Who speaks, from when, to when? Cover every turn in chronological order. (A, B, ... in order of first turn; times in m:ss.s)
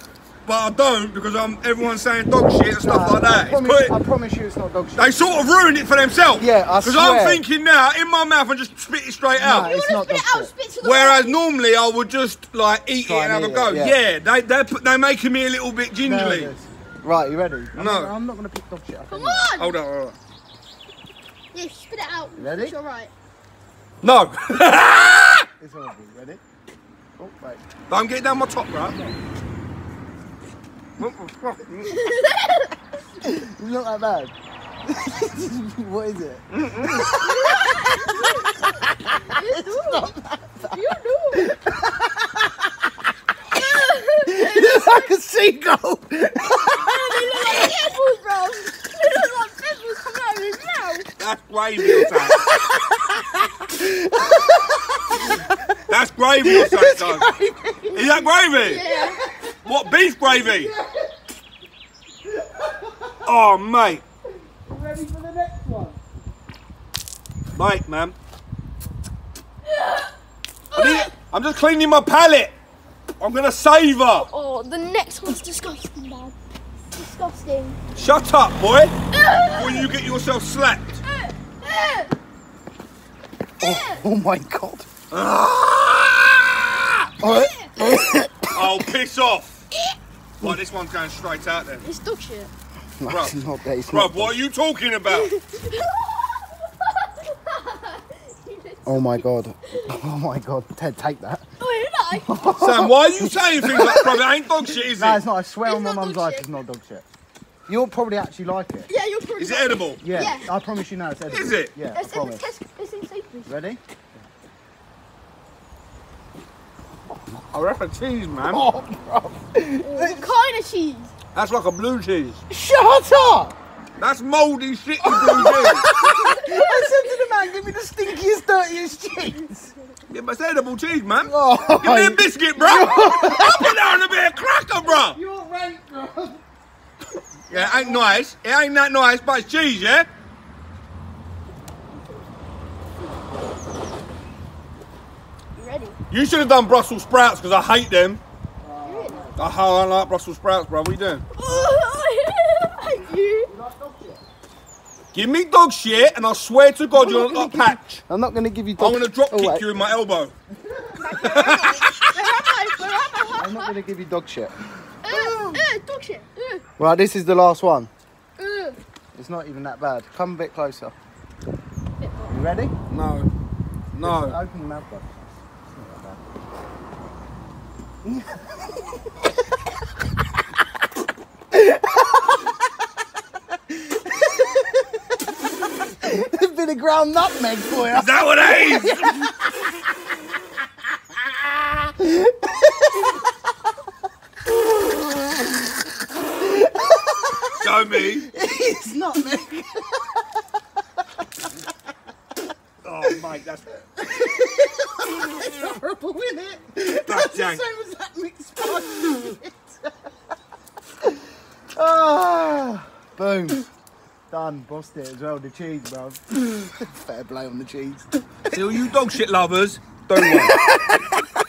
0:00.4-0:03.9 A
0:02.8-0:05.1 B
0:05.0-0:09.7 A
0:06.4-0:07.4 B
0:09.3-0:10.5 B
0:09.5-0:11.4 C
0:10.8-0:16.5 A
0:13.0-0:14.0 B
0:16.0-0:19.5 B
0:17.7-0:18.1 A
0:19.1-0:19.8 C
0:19.6-0:20.2 A
0:21.5-0:23.1 C
0:22.3-0:22.7 B
0:24.0-0:25.5 A
0:25.6-0:26.4 B
0:27.2-0:27.6 B
0:27.9-0:29.0 A
0:31.0-0:32.0 A
0:31.8-0:32.7 C
0:33.2-0:34.3 B
0:34.8-0:40.8 B
0:36.5-0:37.1 A
0:37.2-0:40.1 C
0:40.6-0:41.5 C
0:41.3-0:42.9 B
0:43.5-0:45.1 C
0:44.2-0:47.7 B
0:46.8-0:51.1 C
0:51.2-0:52.4 A
0:51.8-0:55.6 B
0:55.9-0:57.3 A
0:56.4-1:01.1 B
0:57.9-0:58.8 A
0:58.6-0:59.2 C
0:59.6-1:00.7 A
1:02.2-1:03.2 B
1:03.2-1:04.0 A
1:04.6-1:06.0 B
1:07.5-1:08.2 A
1:09.7-1:10.0 C
1:10.7-1:11.1 C
1:10.7-1:12.5 A
1:13.2-1:14.3 A
1:14.2-1:16.3 C
1:16.9-1:17.8 C
1:17.9-1:21.0 A
1:19.1-1:19.9 C
1:21.1-1:22.1 C
1:23.6-1:24.0 C
1:23.6-1:24.9 B
1:25.1-1:27.1 A
1:27.2-1:28.8 B
1:27.2-1:27.7 C
1:28.5-1:29.6 A
1:30.4-1:31.9 A
1:31.8-1:32.5 C
1:33.0-1:34.4 B
1:33.1-1:33.4 A
1:33.9-1:35.3 A
1:35.1-1:39.9 C
1:38.8-1:41.4 B
1:41.6-1:42.3 C
1:42.1-1:44.2 B
1:42.6-1:45.2 A
1:44.9-1:47.0 B
1:45.6-1:46.6 C
1:47.6-1:48.9 B
1:48.9-1:50.5 C
1:49.4-1:50.2 A
1:50.0-1:52.4 B
1:51.3-1:51.7 A
1:51.9-1:53.5 C
1:53.4-1:53.8 B
1:57.5-1:58.6 A
1:58.5-2:00.2 B
1:59.8-2:01.1 C
2:01.3-2:02.4 A
2:02.5-2:03.6 B
2:04.0-2:05.8 A
2:05.0-2:09.7 B
2:05.7-2:07.2 C
2:10.1-2:15.2 A
2:11.2-2:13.9 B
2:14.8-2:16.4 B
2:17.5-2:18.2 B
2:17.5-2:20.1 A
2:25.6-2:26.0 C
2:26.1-2:28.2 A
2:28.6-2:29.5 B
2:28.8-2:29.3 C
2:29.4-2:31.2 A
2:31.4-2:33.5 C
2:33.5-2:34.2 B
2:35.1-2:38.0 A
2:36.9-2:39.8 B
2:38.8-2:40.3 A
2:40.6-2:41.0 B
2:41.0-2:43.8 C
2:41.1-2:42.1 A
2:43.3-2:44.5 B
2:45.0-2:46.6 C
2:45.0-2:45.6 B
2:46.8-2:47.9 B
2:48.4-2:48.8 C
2:49.1-2:50.9 B
2:52.0-2:52.3 C
2:52.3-2:52.7 B
2:52.9-2:53.3 A
2:53.9-2:56.2 B
2:54.0-2:54.4 A
2:58.0-2:58.9 B
3:01.5-3:02.3 B
3:03.7-3:04.8 B
3:05.8-3:09.5 B
3:07.9-3:09.3 A
3:11.5-3:13.2 B
3:16.3-3:20.2 B
3:17.6-3:18.3 A
3:22.8-3:23.6 A
3:24.0-3:29.9 B
3:27.0-3:27.6 A
3:31.7-3:33.6 B
3:34.3-3:38.6 B
3:38.5-3:40.6 A
3:40.2-3:41.1 B